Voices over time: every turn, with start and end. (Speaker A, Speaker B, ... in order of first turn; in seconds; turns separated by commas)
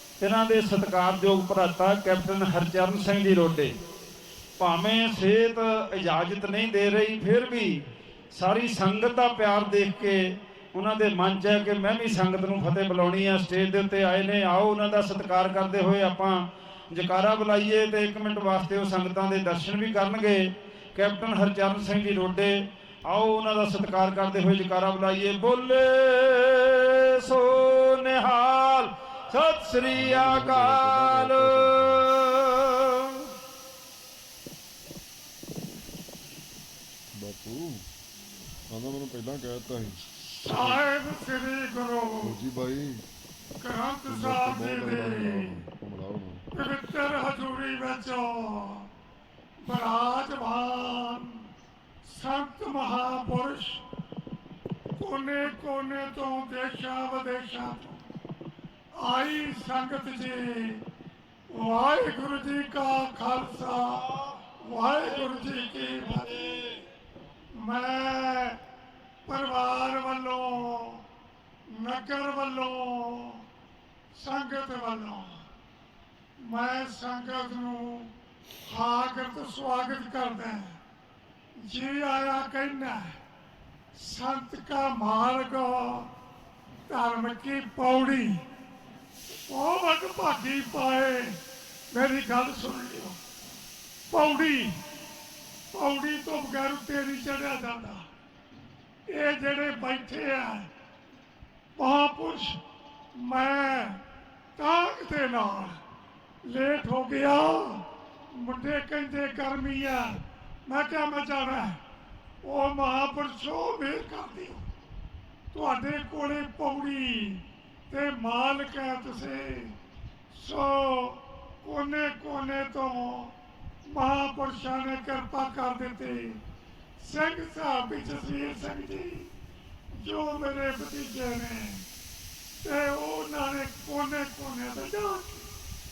Speaker A: 0.2-3.7, Speaker A: 4.6-33.2, Speaker B: 29.9-32.1, Speaker B: 37.1-37.8, Speaker B: 38.7-40.8, Speaker C: 40.2-42.4, Speaker B: 42.2-43.0, Speaker C: 43.6-45.6, Speaker B: 44.1-46.5, Speaker C: 46.5-48.9, Speaker C: 49.6-51.5, Speaker C: 52.0-53.8, Speaker C: 55.0-58.0, Speaker C: 58.9-60.8, Speaker C: 61.5-66.8, Speaker C: 67.5-68.6, Speaker C: 69.2-71.0, Speaker C: 71.7-73.5, Speaker C: 74.1-75.4, Speaker C: 76.4-78.1, Speaker C: 78.6-80.8, Speaker C: 81.6-83.2, Speaker C: 83.9-86.1, Speaker C: 86.9-88.4, Speaker C: 89.5-91.4, Speaker C: 91.9-93.2, Speaker C: 94.1-94.8, Speaker C: 95.7-98.0, Speaker C: 99.1-100.7, Speaker C: 101.8-102.6, Speaker C: 103.1-104.0, Speaker C: 104.5-105.8, Speaker C: 106.4-111.8, Speaker C: 112.4-114.6, Speaker C: 115.5-119.8, Speaker C: 120.3-123.3, Speaker C: 123.9-126.4, Speaker C: 127.0-129.3, Speaker C: 129.9-131.8, Speaker C: 132.6-135.5